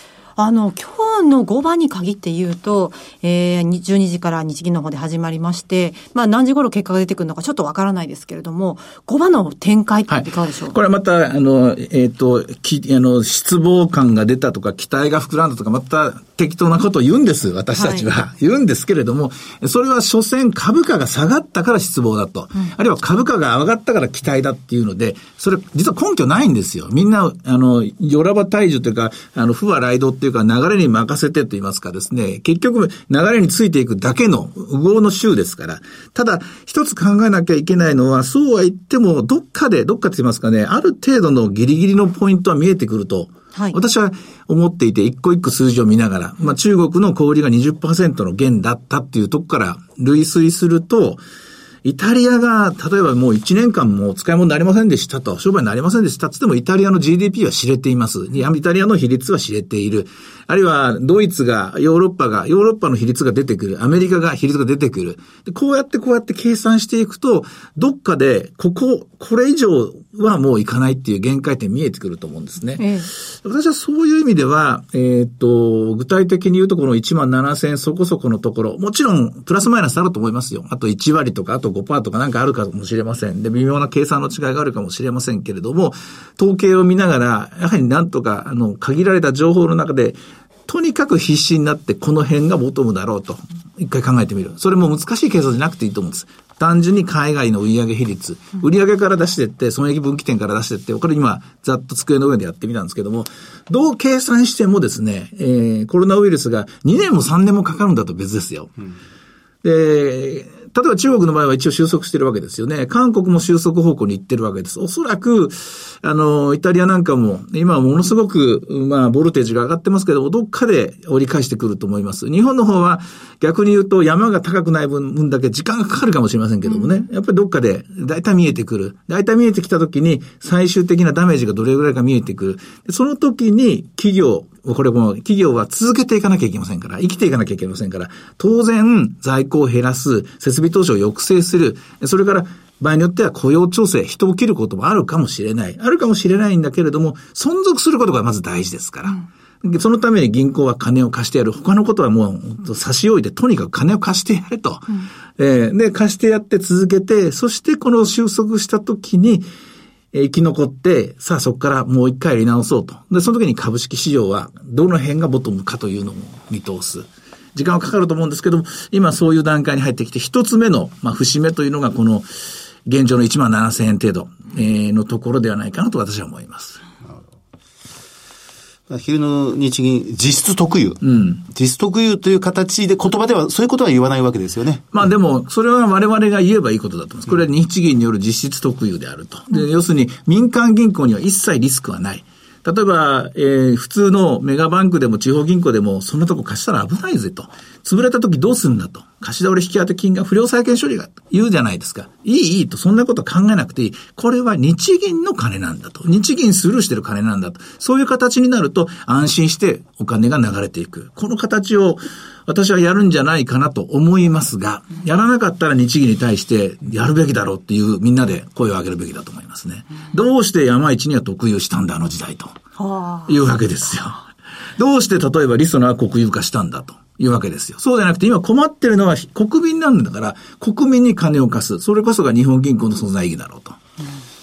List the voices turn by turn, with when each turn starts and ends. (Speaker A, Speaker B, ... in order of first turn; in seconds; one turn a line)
Speaker A: 0.3-10.8
Speaker B: 10.1-51.2
Speaker A: 17.7-18.1
Speaker B: 51.8-108.7
Speaker A: 72.8-73.1
Speaker B: 109.6-159.4
Speaker B: 160.1-172.3
Speaker B: 172.8-176.8
Speaker C: 178.9-184.8
Speaker B: 181.0-181.4
Speaker B: 184.9-222.6
Speaker A: 222.8-223.4
Speaker B: 223.3-224.2
Speaker B: 224.8-233.8